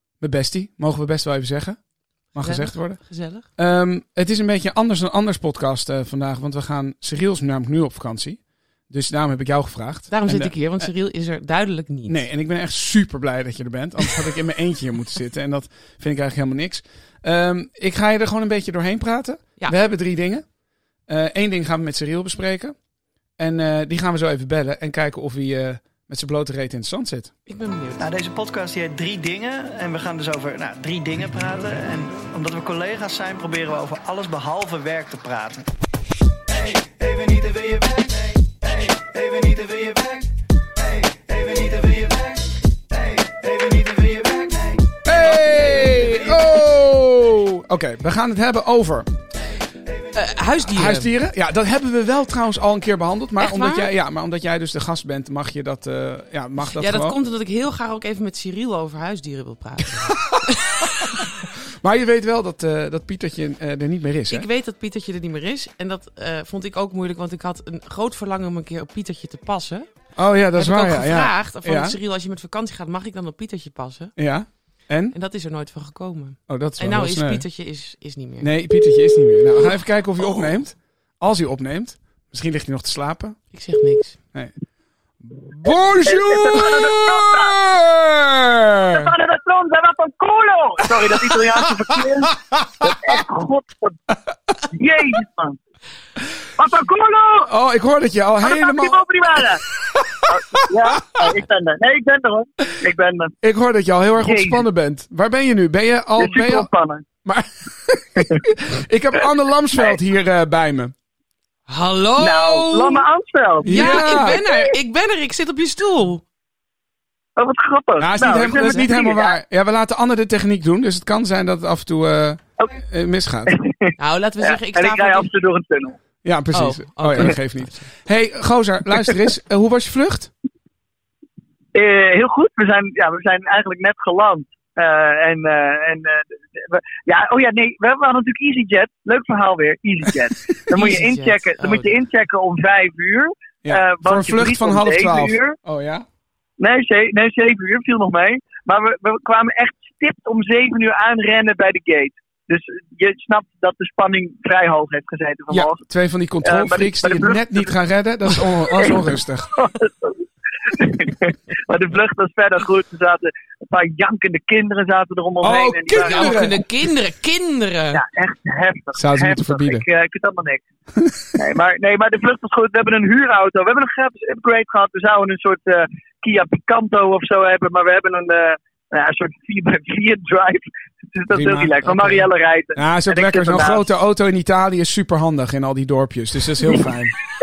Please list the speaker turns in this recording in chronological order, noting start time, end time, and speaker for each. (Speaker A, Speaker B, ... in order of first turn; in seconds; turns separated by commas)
Speaker A: 0.2-1.8, Speaker A: 2.3-3.0, Speaker B: 2.4-3.4, Speaker A: 3.6-10.8, Speaker B: 10.1-12.2, Speaker A: 12.1-20.4, Speaker A: 21.1-22.7, Speaker A: 23.4-27.3, Speaker B: 27.5-28.0, Speaker C: 28.0-35.7, Speaker C: 36.5-46.4, Speaker A: 45.0-49.1, Speaker B: 50.1-51.1, Speaker A: 50.7-57.2, Speaker B: 53.4-53.9, Speaker B: 56.6-60.7, Speaker A: 60.1-60.5, Speaker A: 61.8-64.5, Speaker B: 64.3-69.9, Speaker A: 70.2-72.0, Speaker B: 70.5-74.1, Speaker A: 74.2-75.2, Speaker B: 75.1-78.5, Speaker A: 76.5-77.5, Speaker A: 78.4-83.4, Speaker B: 83.5-84.2, Speaker A: 85.2-89.1, Speaker D: 86.0-87.6, Speaker D: 88.9-94.0, Speaker A: 92.3-93.2, Speaker D: 94.7-95.6, Speaker D: 96.6-97.5, Speaker A: 97.5-99.0, Speaker D: 98.4-99.6, Speaker A: 99.9-101.2, Speaker D: 100.3-103.3, Speaker A: 103.4-106.7, Speaker D: 104.2-104.7, Speaker D: 106.2-107.0, Speaker A: 107.2-110.9, Speaker D: 108.2-108.4, Speaker B: 111.7-113.1, Speaker D: 112.2-114.7, Speaker A: 113.6-114.4, Speaker B: 113.6-116.2, Speaker D: 117.4-119.4, Speaker A: 118.0-123.5, Speaker B: 118.5-118.8, Speaker D: 123.5-126.0, Speaker B: 124.0-125.3, Speaker A: 126.2-130.3, Speaker B: 126.5-127.9, Speaker D: 131.7-145.6, Speaker B: 140.7-141.9, Speaker A: 143.6-146.0, Speaker D: 146.6-155.8, Speaker A: 155.5-159.5, Speaker D: 156.4-157.7, Speaker D: 158.3-166.4, Speaker A: 165.4-166.6, Speaker B: 166.0-168.0, Speaker D: 167.9-170.6, Speaker A: 168.9-169.8, Speaker D: 171.3-183.9, Speaker A: 181.3-181.7, Speaker B: 181.8-182.3, Speaker A: 182.8-187.2